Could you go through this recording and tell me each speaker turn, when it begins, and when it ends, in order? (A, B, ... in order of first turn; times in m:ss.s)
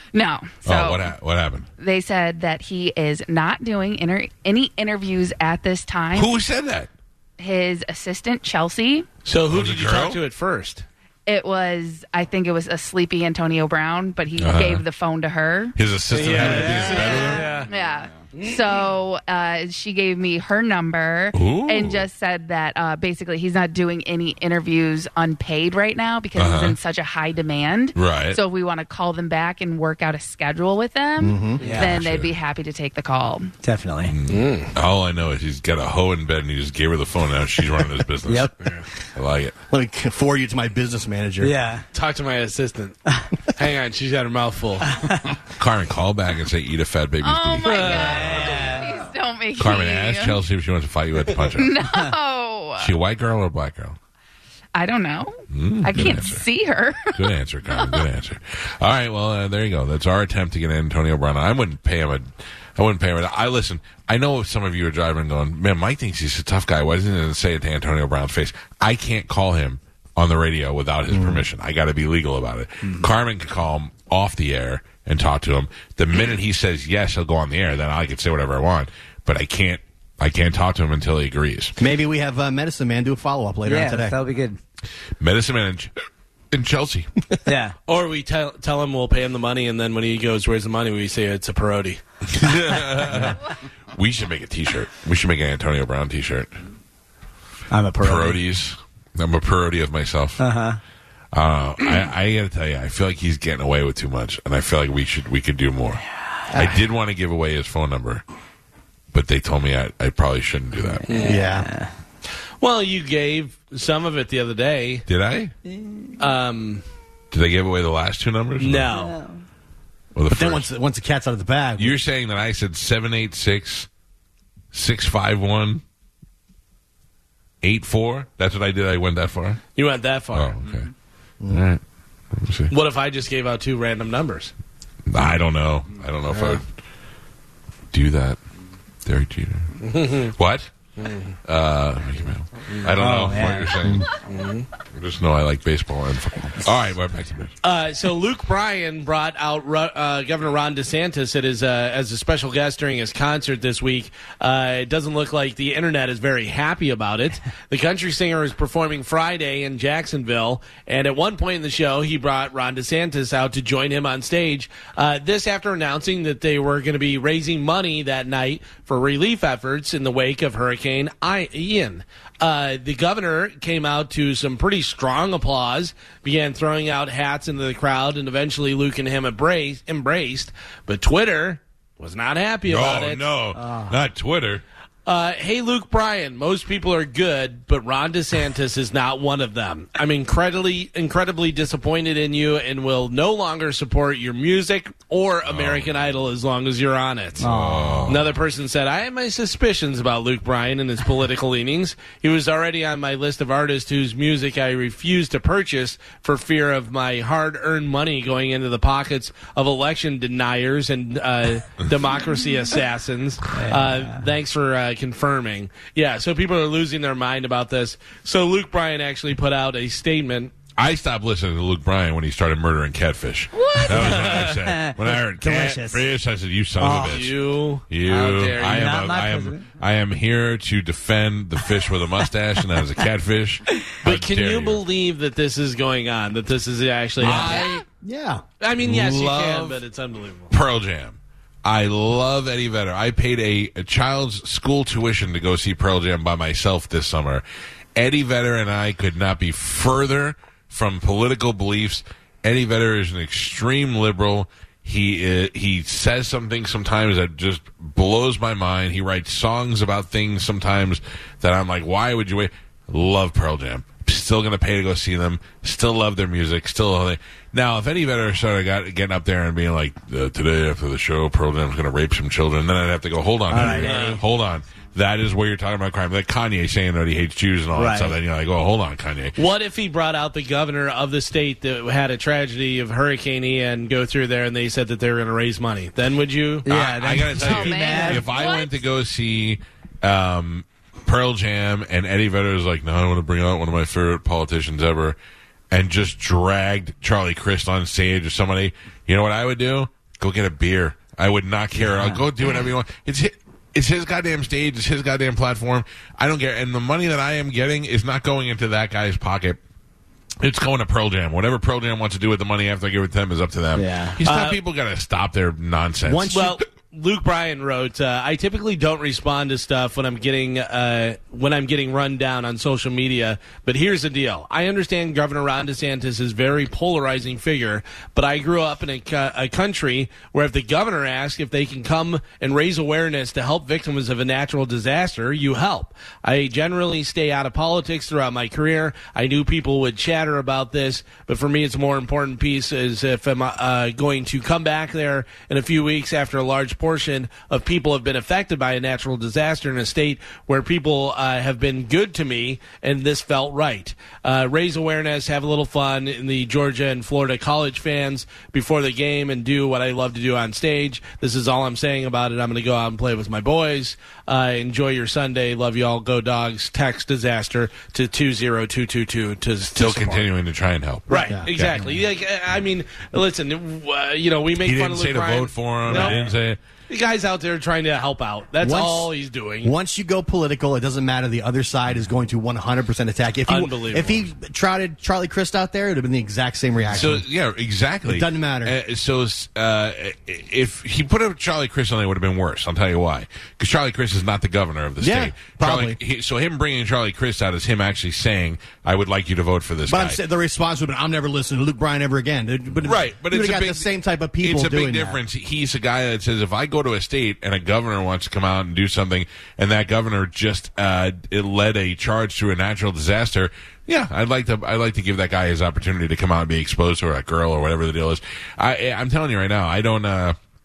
0:00.1-0:01.1 A
0:00.6-0:01.7 B
0:01.8-0:06.3 A
0:06.1-0:06.9 B
0:07.4-0:09.1 A
0:09.2-0:10.8 C
0:09.5-0:10.2 B
0:11.3-0:15.8 A
0:14.4-0:14.8 B
0:15.8-0:17.6 B
0:16.1-0:17.7 C
0:16.6-0:16.9 D
0:16.7-0:33.5 A
0:18.3-0:18.8 C
0:21.3-0:22.0 B
0:26.4-0:26.8 B
0:27.9-0:28.4 B
0:31.2-0:31.7 E
0:31.6-0:32.0 D
0:31.7-0:32.3 B
0:33.6-0:34.2 D
0:34.1-0:38.5 B
0:34.3-0:34.7 C
0:38.2-0:38.5 D
0:39.1-0:39.5 B
0:39.7-0:41.6 E
0:41.4-0:41.8 D
0:41.9-0:43.0 C
0:43.6-0:44.9 C
0:44.9-0:45.2 D
0:45.6-0:48.5 B
0:47.2-0:50.4 A
0:47.6-0:48.6 C
0:47.8-0:49.0 D
0:49.6-0:51.8 B
0:51.5-0:52.9 A
0:52.8-0:54.0 B
0:54.7-0:57.2 A
0:55.5-0:56.4 B
0:57.1-1:21.8 B
0:57.7-0:58.0 A
1:11.1-1:11.4 E
1:21.8-1:24.2 E
1:23.6-1:24.6 D
1:25.2-1:25.9 B
1:26.5-1:27.1 B
1:27.4-1:27.7 D
1:27.9-1:32.0 C
1:32.3-1:36.5 B
1:37.7-1:38.4 D
1:38.0-1:40.4 B
1:40.4-1:40.8 D
1:41.3-1:46.0 B
1:46.5-1:46.8 E
1:46.5-1:48.2 B
1:49.1-1:51.2 B
1:51.1-1:51.4 C
1:51.2-1:51.7 E
1:51.3-1:51.9 D
1:52.6-1:55.0 C
1:55.1-1:55.5 B
1:55.7-1:56.1 D
1:56.2-1:56.8 C
1:57.3-1:58.9 B
1:58.6-1:59.2 C
1:58.9-1:59.4 D
2:00.1-2:00.7 B
2:00.3-2:02.0 E
2:01.8-2:03.9 B
2:04.7-2:05.8 B
2:07.6-2:09.6 B
2:09.8-2:10.6 C
2:10.3-2:10.9 B
2:11.4-2:11.6 E
2:11.5-2:11.8 B
2:12.3-2:12.7 B
2:12.7-2:14.5 C
2:15.1-2:16.6 B
2:16.3-2:16.6 C
2:17.9-2:18.4 B
2:19.0-2:20.7 B
2:19.8-2:20.3 C
2:21.0-2:21.3 C
2:21.4-2:24.1 B
2:22.9-2:23.8 D
2:24.2-2:24.7 C
2:24.8-2:27.5 B
2:27.6-3:03.3 C
3:02.6-3:04.6 B
3:03.6-3:03.9 E
3:05.0-3:17.4 C
3:15.4-3:16.1 B
3:17.4-3:18.1 D
3:17.4-3:18.4 B
3:18.1-3:40.5 C
3:33.5-3:34.2 D
3:40.8-3:47.4 B
3:43.6-3:43.9 A
3:43.7-3:46.1 D
3:44.0-3:44.5 C
3:46.8-3:47.3 D
3:46.9-3:48.9 C
3:47.9-3:54.8 B
3:48.1-3:49.7 D
3:54.0-3:57.8 C
3:57.2-3:58.4 E
3:58.6-4:00.5 C
3:58.8-3:59.8 B
4:00.5-4:07.4 B
4:08.0-4:39.4 B
4:33.5-4:34.2 D
4:33.6-4:34.2 C
4:37.7-4:38.2 D
4:39.4-4:46.7 C
4:46.6-4:48.3 D
4:46.7-4:55.2 B
4:47.4-4:48.8 A
4:55.7-5:09.6 B
5:01.8-5:02.2 D
5:10.4-5:16.6 B
5:13.7-5:14.2 D
5:14.2-5:14.6 C
5:16.0-5:16.6 E
5:16.3-6:10.2 C
6:09.8-6:11.8 B
6:11.1-6:16.3 C
6:11.1-6:11.9 E
6:14.6-6:16.6 B
6:15.9-6:16.3 E
6:16.9-6:19.7 C
6:18.6-6:19.1 E
6:19.6-6:27.2 E
6:23.5-6:24.2 C
6:26.9-6:40.2 B
6:28.0-6:28.7 E
6:35.0-6:36.0 E
6:39.9-6:45.2 E
6:42.8-6:43.9 B
6:44.4-7:00.4 B